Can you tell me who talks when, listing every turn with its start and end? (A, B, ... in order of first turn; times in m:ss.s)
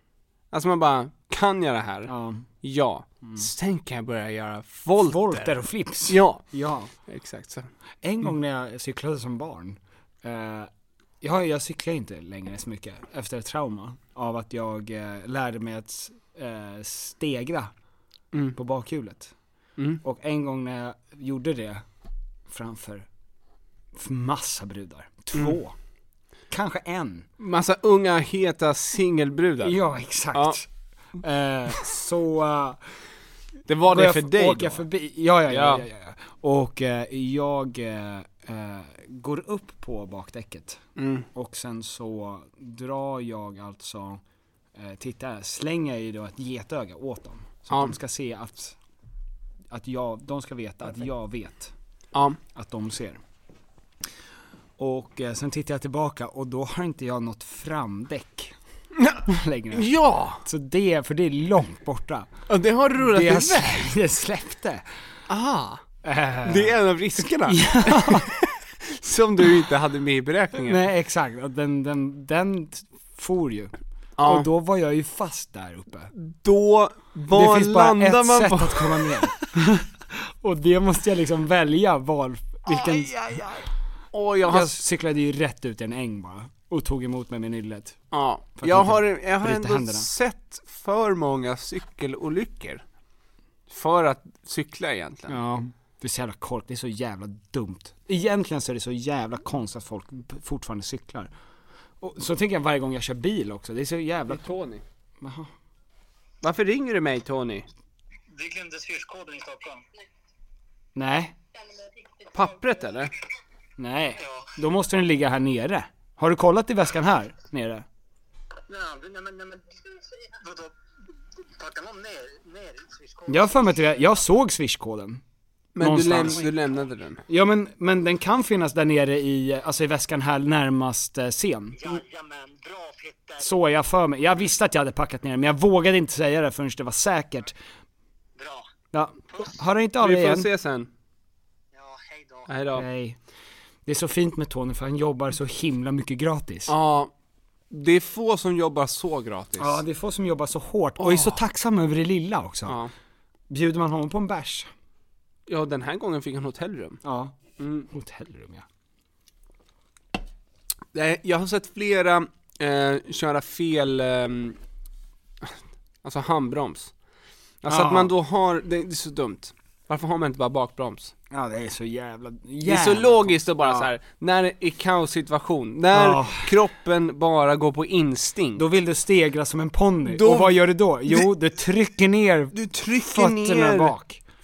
0:00.5-0:05.5 A
0:02.1-0:02.5 B
0:05.0-0:06.9 B
0:06.1-0:06.4 A
0:07.1-0:07.7 A
0:08.0-0:10.7 B
0:11.2-0:17.7 B
0:18.6-0:19.3 B
0:20.0-0:21.8 B
0:22.5-0:23.0 B
0:24.0-0:25.8 B
0:26.5-0:27.3 B
0:27.4-0:29.8 A
0:29.6-0:30.6 B
0:30.3-0:30.6 A
0:31.2-0:32.8 B
0:33.7-0:34.8 A
0:33.8-0:40.8 B
0:35.5-0:35.8 A
0:41.0-0:41.3 A
0:41.3-0:44.2 B
0:44.8-0:48.8 B
0:47.7-0:48.0 A
0:49.7-0:51.7 B
0:52.5-0:53.2 B
0:54.8-0:58.6 B
0:59.3-1:02.3 B
0:59.7-1:00.4 A
1:02.5-1:03.9 A
1:03.0-1:04.8 B
1:05.3-1:05.8 A
1:06.0-1:06.8 B
1:06.4-1:10.8 A
1:07.4-1:08.3 B
1:10.6-1:16.1 B
1:14.2-1:14.5 A
1:16.1-1:19.1 A
1:17.3-1:23.2 B
1:22.7-1:24.8 A
1:24.5-1:30.1 B
1:28.1-1:32.8 A
1:33.7-1:35.4 A
1:35.3-1:41.3 B
1:42.0-1:44.5 B
1:44.3-1:44.8 A
1:45.2-1:45.5 B
1:46.4-1:47.7 A
1:48.4-1:49.8 C
1:51.0-1:51.4 B
1:52.3-1:53.1 A
1:53.8-1:57.8 B
1:54.2-1:54.5 C
1:58.7-2:00.7 C
2:01.6-2:04.3 C
2:03.3-2:05.2 B
2:05.8-2:07.2 A
2:05.8-2:06.5 B
2:07.3-2:12.0 B
2:11.8-2:13.6 C
2:13.4-2:17.5 B
2:18.4-2:18.7 C
2:18.9-2:20.5 B
2:20.0-2:20.9 A
2:21.7-2:22.5 C
2:22.5-2:22.9 A
2:22.8-2:23.2 B
2:23.9-2:26.7 B
2:26.7-2:27.1 A
2:27.7-2:29.8 A
2:29.6-2:32.8 B
2:31.0-2:31.4 A
2:32.7-2:32.9 A
2:33.5-2:34.7 B
2:35.5-2:37.0 A
2:37.0-2:37.3 B
2:37.6-2:37.9 A
2:37.9-2:38.6 B
2:40.9-2:44.6 A
2:46.0-2:46.9 A
2:47.6-2:51.1 A
2:47.7-2:48.1 B
2:51.3-2:53.9 B
2:52.6-2:58.7 A
2:55.9-2:56.6 B
2:58.6-3:04.2 B
3:00.1-3:01.3 A
3:02.5-3:03.9 A